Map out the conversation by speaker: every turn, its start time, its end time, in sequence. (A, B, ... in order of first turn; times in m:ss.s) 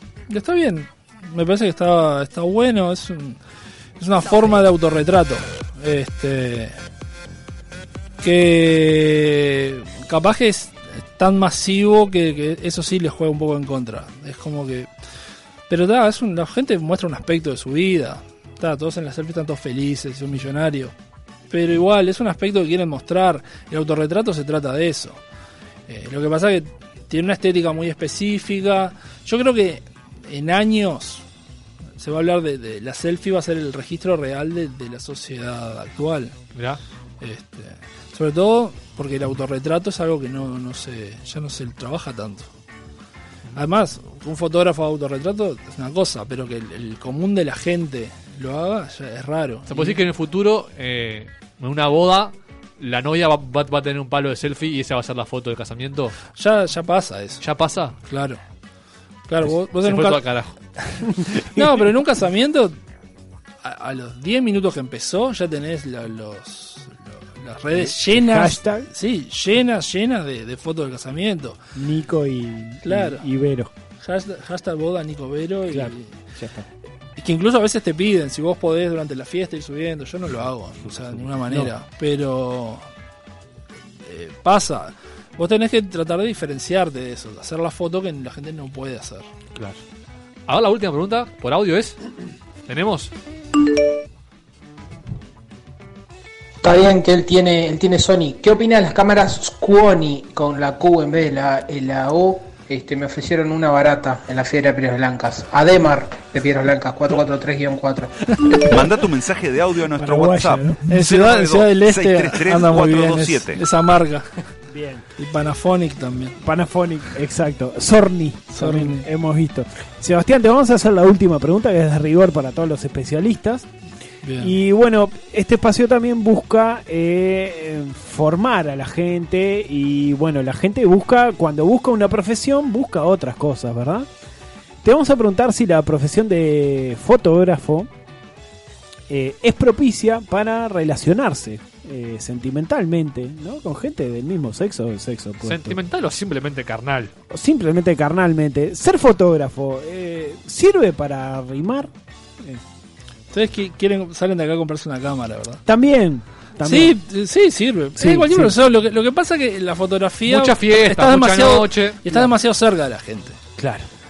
0:00.3-0:03.4 A
0:04.0-0:06.7 A
0:08.2-0:14.9 A
0:15.7-0:20.9 A
0:21.5-0:25.2 A
0:25.9-0:31.2 A
0:32.0-0:36.4 A
0:36.6-0:36.8 B
0:37.2-0:42.5 A
0:43.6-0:50.0 A
0:49.7-0:56.2 B
0:56.3-0:57.4 A
0:57.4-0:58.0 B
0:58.0-0:58.4 A
0:59.3-1:00.2 A
0:59.8-1:00.6 B
1:01.4-1:02.8 A
1:03.6-1:11.6 A
1:07.8-1:08.9 C
1:11.8-1:13.7 C
1:12.8-1:13.3 A
1:14.0-1:16.1 A
1:15.7-1:16.6 C
1:17.2-1:22.8 A
1:24.1-1:29.3 A
1:30.5-1:32.0 B
1:32.7-1:33.1 B
1:36.6-1:48.1 D
1:48.7-1:53.6 E
1:50.0-1:50.8 C
1:50.9-1:54.3 A
1:54.7-1:55.0 C
1:55.2-1:56.4 A
1:56.4-2:03.7 C
1:58.5-1:59.1 A
2:04.2-2:04.6 A
2:04.4-2:14.1 C
2:14.8-2:17.9 C
2:19.1-2:25.8 C
2:25.4-2:27.1 B
2:27.3-2:31.9 C
2:33.3-2:35.6 A
2:35.7-2:37.0 C
2:36.6-2:43.4 A
2:38.0-2:38.6 C
2:40.3-2:42.0 B
2:43.6-2:43.9 C